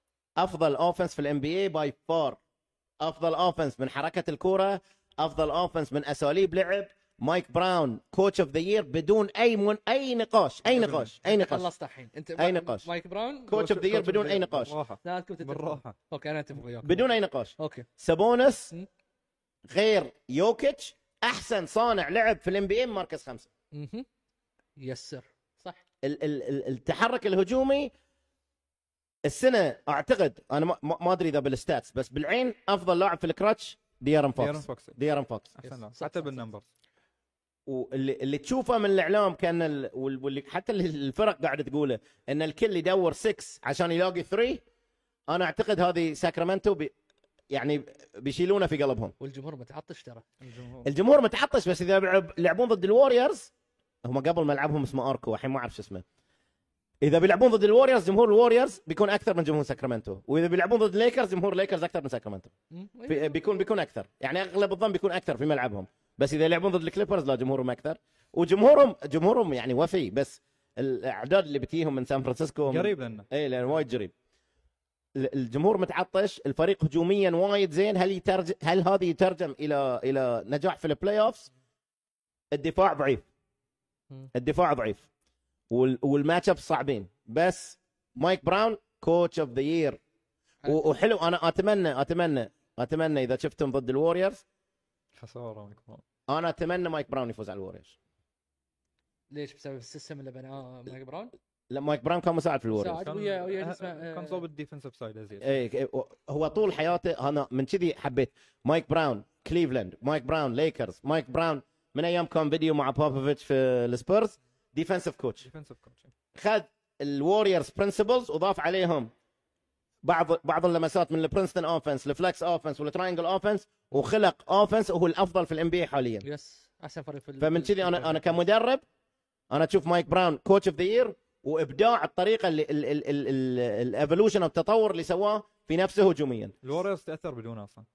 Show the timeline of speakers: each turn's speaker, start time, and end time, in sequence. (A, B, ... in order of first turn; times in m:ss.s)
0:00.4-0:02.4 A
0:03.0-0:11.7 A
0:10.7-0:11.1 B
0:11.2-0:13.6 C
0:12.4-0:12.9 A
0:13.5-0:14.7 A
0:13.5-0:16.0 B
0:15.0-0:17.9 C
0:16.8-0:18.7 A
0:19.7-0:23.5 A
0:23.7-0:24.1 C
0:24.8-0:25.8 C
0:26.0-0:27.9 A
0:29.2-0:35.5 A
0:34.4-0:35.0 B
0:35.6-0:36.7 B
0:35.6-0:36.5 C
0:37.7-0:44.6 A
0:45.3-0:46.9 A
0:47.5-0:49.1 A
0:49.2-0:50.2 C
0:50.4-0:50.9 B
0:50.8-0:53.5 A
0:54.0-0:56.0 A
0:57.0-1:02.5 A
1:02.7-1:03.3 C
1:03.1-1:14.1 A
1:12.7-1:13.3 B
1:15.2-1:21.5 A
1:22.5-1:23.2 A
1:24.3-1:25.1 A
1:25.7-1:30.0 A
1:30.7-1:34.4 A
1:35.2-1:36.0 B
1:36.3-1:38.0 A
1:39.3-1:41.3 C
1:41.7-1:43.0 A
1:42.7-1:44.4 C
1:43.0-1:45.6 B
1:45.4-1:55.4 A
1:55.4-1:56.1 B
1:56.4-1:59.1 A
2:00.0-2:06.2 A
2:06.2-2:08.4 C
2:07.4-2:08.8 A
2:09.5-2:16.6 A
2:16.6-2:17.9 B